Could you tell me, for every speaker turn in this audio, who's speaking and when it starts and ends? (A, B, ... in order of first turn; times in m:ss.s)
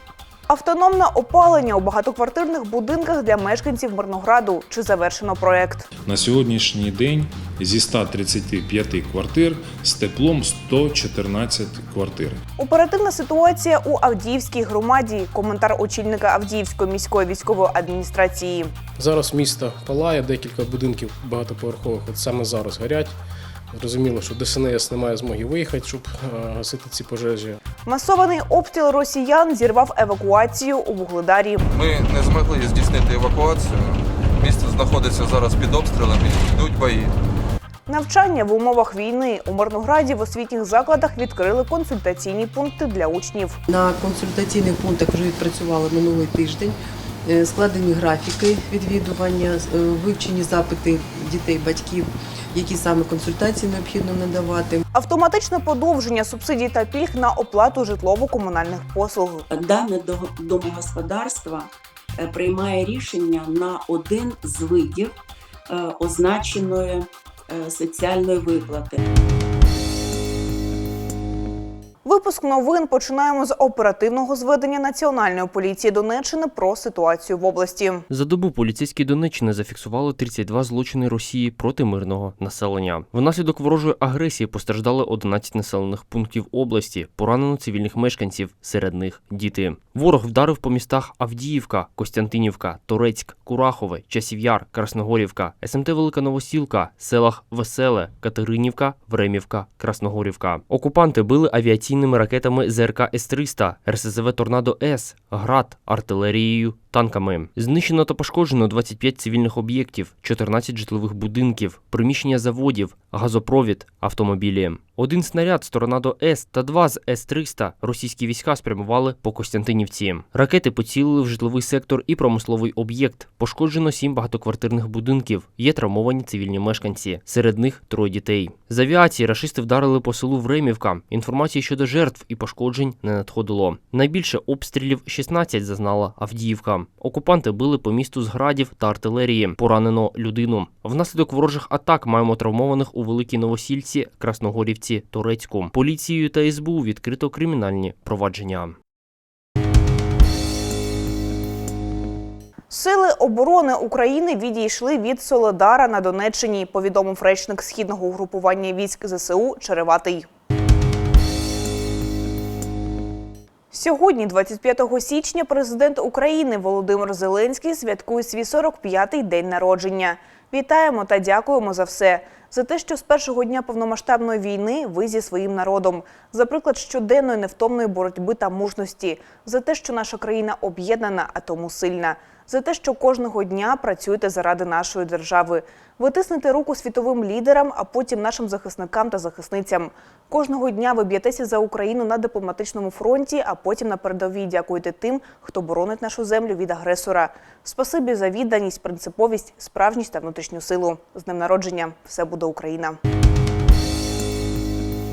0:00.5-0:05.9 A
0:06.1-0:12.4 B
0:12.6-0:18.7 A
0:19.0-0:23.2 C
0:23.7-0:27.6 C
0:27.9-0:31.6 A
0:31.7-0:37.1 D
0:37.9-0:43.6 A
0:43.7-0:54.8 E
0:54.9-0:59.4 A
0:59.5-1:05.1 F
1:05.7-1:09.0 F
1:12.0-1:18.0 A
1:18.1-2:28.8 G
2:32.7-2:40.3 A
2:43.7-3:23.0 A